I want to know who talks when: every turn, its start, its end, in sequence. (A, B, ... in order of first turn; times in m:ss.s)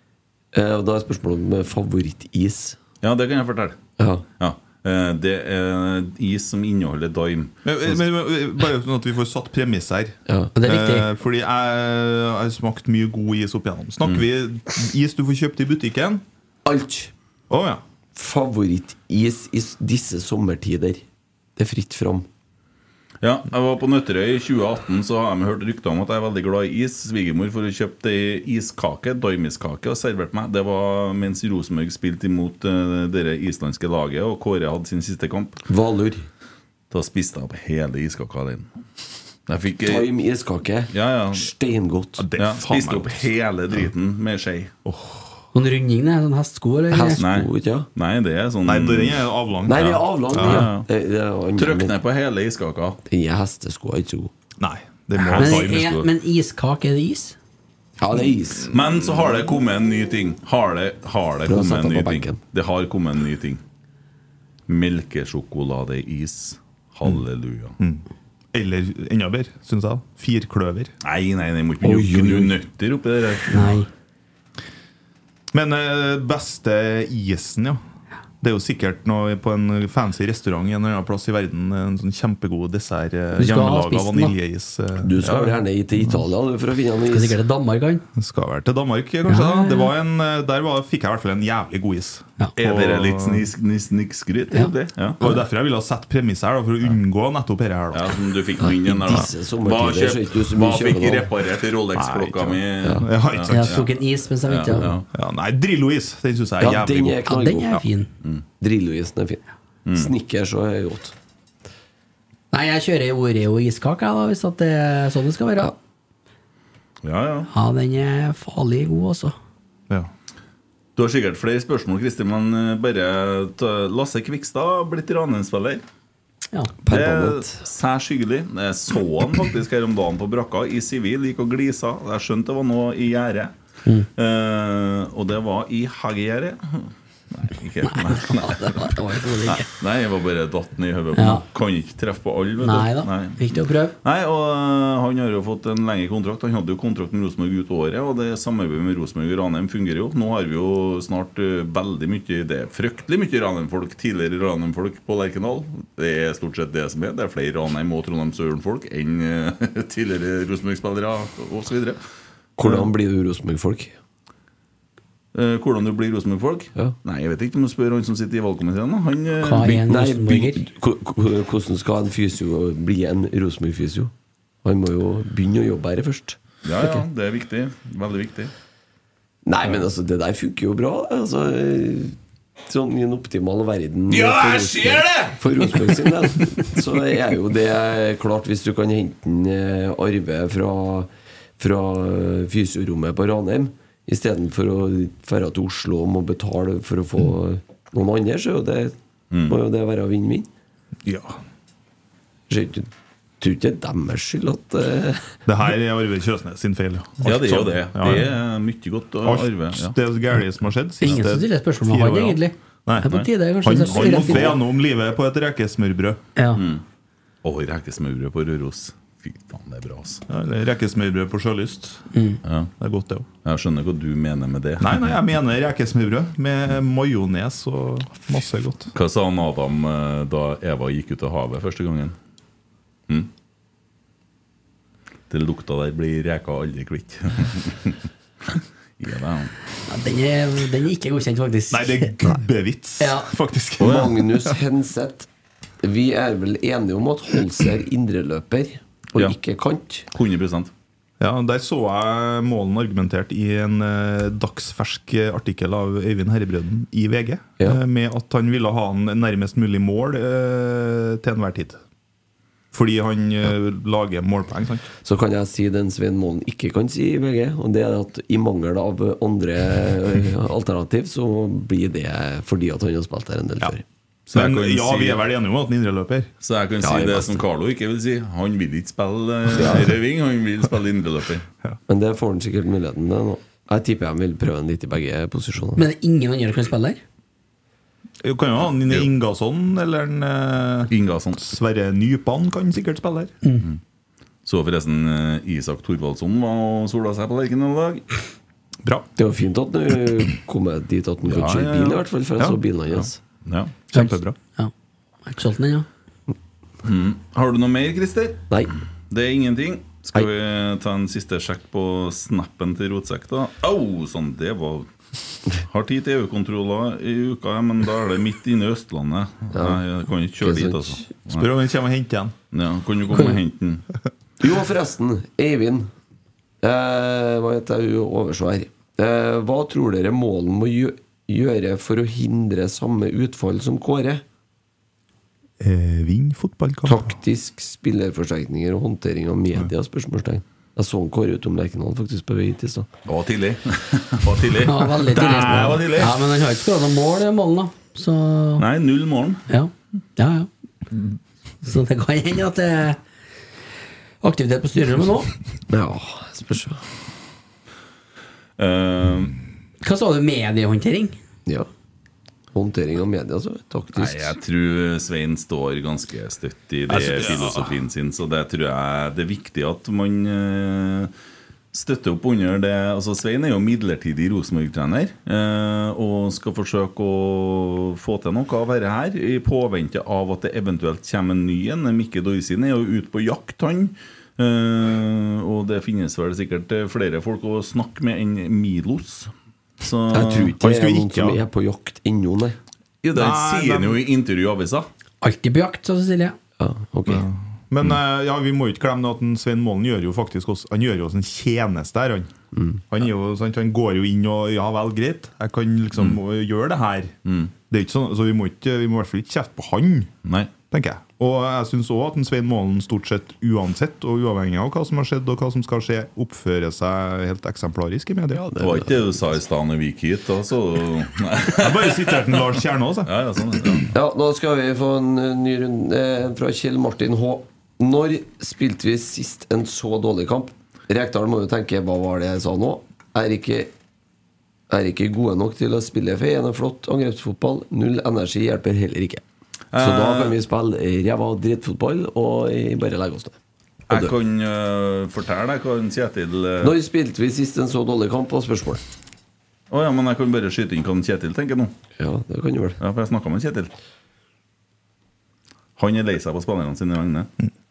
0:00.5-0:02.8 A
0:03.0-0:03.8 B
0:04.0-0:04.2 A
0:04.4-0:08.0 B
0:07.6-0:16.2 C
0:10.5-0:11.1 D
0:16.6-0:17.1 A
0:17.5-0:17.8 C
0:18.1-0:21.0 A
0:21.6-0:22.3 A
0:23.2-0:35.6 B
0:35.7-0:36.3 A
0:36.9-0:38.7 B
0:39.5-0:40.1 B
0:39.8-0:42.2 A
0:40.9-0:41.5 B
0:42.2-0:43.3 C
0:42.4-0:44.7 B
0:44.8-0:45.3 C
0:45.5-0:47.2 D
0:46.9-0:47.9 A
0:47.2-0:49.2 B
0:48.6-0:50.7 C
0:49.6-0:51.9 A
0:50.3-0:50.9 B
0:51.6-0:53.0 B
0:53.1-0:54.3 A
0:54.6-0:56.0 C
0:55.1-0:56.0 B
0:55.4-0:57.4 D
0:58.0-0:58.7 A
0:58.7-1:03.6 B
1:01.5-1:02.4 A
1:04.7-1:07.8 B
1:07.8-1:10.9 C
1:11.0-1:13.7 B
1:11.8-1:12.5 A
1:13.5-1:13.9 D
1:15.5-1:17.8 C
1:18.4-1:26.2 C
1:23.4-1:24.3 D
1:25.0-1:27.4 A
1:27.1-1:28.0 D
1:28.1-1:33.5 C
1:29.3-1:29.9 D
1:32.6-1:35.2 B
1:35.2-1:38.2 C
1:37.9-1:43.9 B
1:38.6-1:41.3 A
1:41.9-1:43.9 C
1:43.5-1:44.9 D
1:44.4-1:45.0 B
1:45.1-1:47.2 C
1:46.6-1:47.8 A
1:47.2-1:48.1 D
1:48.6-1:49.4 A
1:49.8-1:50.1 B
1:49.9-1:51.1 A
1:52.5-1:55.7 D
1:57.0-1:57.5 B
1:57.5-1:59.3 D
2:01.0-2:05.8 B
2:06.8-2:07.6 A
2:06.9-2:13.5 B
2:14.2-2:18.9 B
2:17.8-2:19.7 D
2:19.4-2:42.0 B
2:21.1-2:21.4 D
2:22.6-2:23.9 D
2:42.6-2:43.9 A
2:45.3-2:49.8 B
2:49.4-2:50.6 D
2:49.7-2:54.1 A
2:54.6-2:56.4 A
2:56.6-2:58.5 B
2:59.4-3:02.1 A
3:02.6-3:18.9 A
3:04.1-3:06.0 B
3:19.3-3:19.6 B
3:19.5-3:20.5 A
3:21.0-3:21.4 C
3:22.5-3:22.9 A
3:23.4-3:25.2 A
3:25.4-3:28.3 C
3:27.2-3:30.0 B
3:29.2-3:36.2 C
3:31.0-3:34.5 D
3:33.0-3:34.6 B
3:36.4-3:36.6 D
3:36.5-3:36.8 B
3:37.4-3:40.2 B
3:40.3-3:42.0 C
3:42.1-3:42.4 D
3:42.4-3:42.7 B
3:42.8-3:43.3 C
3:43.4-3:45.2 B
3:44.8-3:48.9 C
3:48.9-3:52.1 B
3:55.3-3:59.5 B
3:59.9-4:02.2 D
4:01.7-4:04.6 C
4:03.0-4:03.3 D
4:03.8-4:05.3 A
4:05.8-4:10.1 A
4:10.1-4:10.7 B
4:11.2-4:21.8 C
4:22.7-4:24.9 C
4:25.0-4:33.8 A
4:34.3-4:35.2 B
4:34.3-4:36.3 C
4:36.4-4:41.4 B
4:36.8-4:37.4 A
4:39.5-4:39.9 A
4:41.9-4:45.8 A
4:45.8-4:47.0 D
4:48.2-4:53.3 C
4:50.9-4:51.4 B
4:54.4-4:58.0 B
4:59.2-5:03.2 A
5:01.2-5:02.0 B
5:02.9-5:03.7 B
5:03.9-5:04.4 C
5:03.9-5:04.7 D
5:05.2-5:05.9 D
5:06.8-5:08.5 B
5:09.1-5:14.9 B
5:15.5-5:21.5 B
5:19.5-5:19.8 A
5:20.4-5:21.0 A
5:21.3-5:22.3 C
5:22.5-5:23.8 B
5:24.4-5:25.9 A
5:26.6-5:34.2 A
5:35.6-5:37.2 C
5:36.8-5:42.9 A
5:43.0-5:46.2 B
5:44.6-5:48.6 D
5:48.6-5:49.4 B
5:49.5-5:50.5 D
5:51.6-5:53.0 D
5:54.2-5:55.3 D
5:55.7-5:56.8 A
5:58.6-5:59.4 B
5:59.8-6:01.2 D
6:02.5-6:04.3 A
6:03.9-6:11.1 B
6:06.9-6:07.7 C
6:11.7-6:30.5 B
6:30.1-6:32.6 A
6:30.6-6:31.4 C
6:33.0-6:34.9 B
6:33.1-6:34.0 C
6:35.2-6:36.4 D
6:36.6-6:37.2 A
6:37.1-6:42.3 C
6:42.5-6:42.8 A
6:42.9-6:47.2 C
6:47.2-6:47.5 B
6:47.7-6:50.1 C
6:50.2-6:50.5 B
6:50.7-6:58.5 C
6:58.4-6:59.0 A
6:58.6-7:03.9 B
7:01.5-7:03.8 C
7:03.9-7:13.7 A
7:14.7-7:19.2 A
7:19.7-7:20.4 B
7:19.8-7:23.4 A
7:23.9-7:26.8 B
7:26.6-7:28.8 A
7:29.7-7:31.7 B
7:32.0-7:32.8 A
7:32.8-7:33.7 B
7:35.8-7:37.3 B